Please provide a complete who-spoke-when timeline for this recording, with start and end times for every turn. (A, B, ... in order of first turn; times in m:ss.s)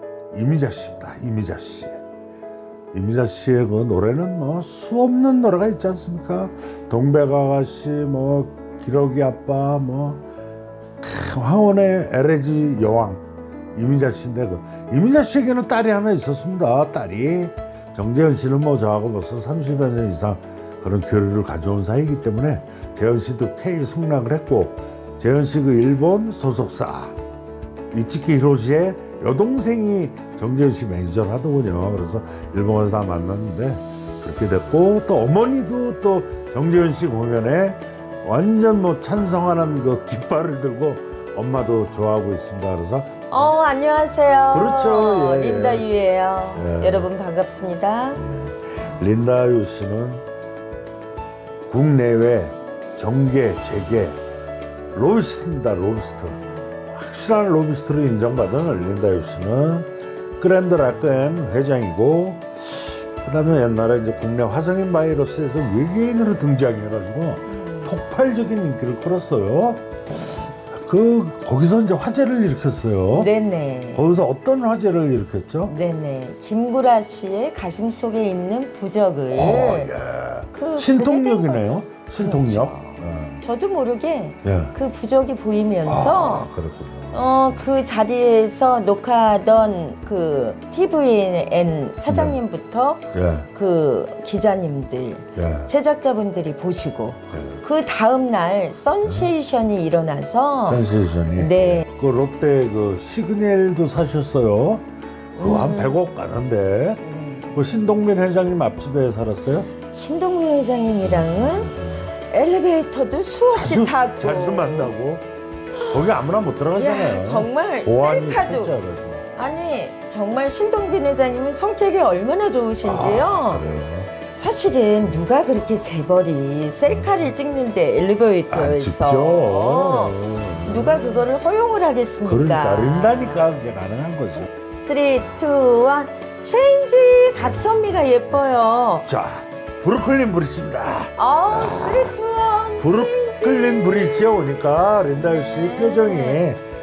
0:00.3-0:02.0 A
0:02.9-0:10.2 A
0:11.0-0:13.2 A
0:13.8-0:27.2 A
0:27.9-0:43.1 A
0:43.3-0:48.2 B
0:44.5-0:45.9 A
0:46.6-0:47.1 A
0:48.2-0:50.2 A
0:51.7-0:54.2 A
0:54.9-1:09.9 A
1:07.5-1:07.9 B
1:10.6-1:13.3 A
1:13.1-1:14.0 B
1:14.0-1:15.7 A
1:15.7-1:19.9 B
1:19.3-1:23.4 A
1:20.5-1:26.5 B
1:24.4-1:24.8 A
1:25.9-1:27.3 A
1:27.1-1:40.8 B
1:32.1-1:32.4 A
1:33.1-1:33.5 A
1:35.4-1:35.7 A
1:37.3-1:37.6 A
1:39.0-1:39.3 A
1:40.6-1:44.8 A
1:41.4-1:41.9 B
1:45.4-1:47.0 A
1:45.4-1:46.0 B
1:47.0-1:47.6 B
1:47.6-1:49.7 A
1:49.8-1:54.9 B
1:51.0-1:52.1 A
1:53.5-1:55.3 A
1:55.9-1:59.3 A
1:56.8-1:58.7 B
1:59.4-2:03.7 B
2:02.8-2:04.1 A
2:04.3-2:13.5 B
2:08.5-2:11.3 A
2:12.2-2:14.5 A
2:14.8-2:19.1 B
2:19.1-2:22.2 A
2:21.2-2:24.3 B
2:22.8-2:26.6 A
2:25.2-2:26.5 B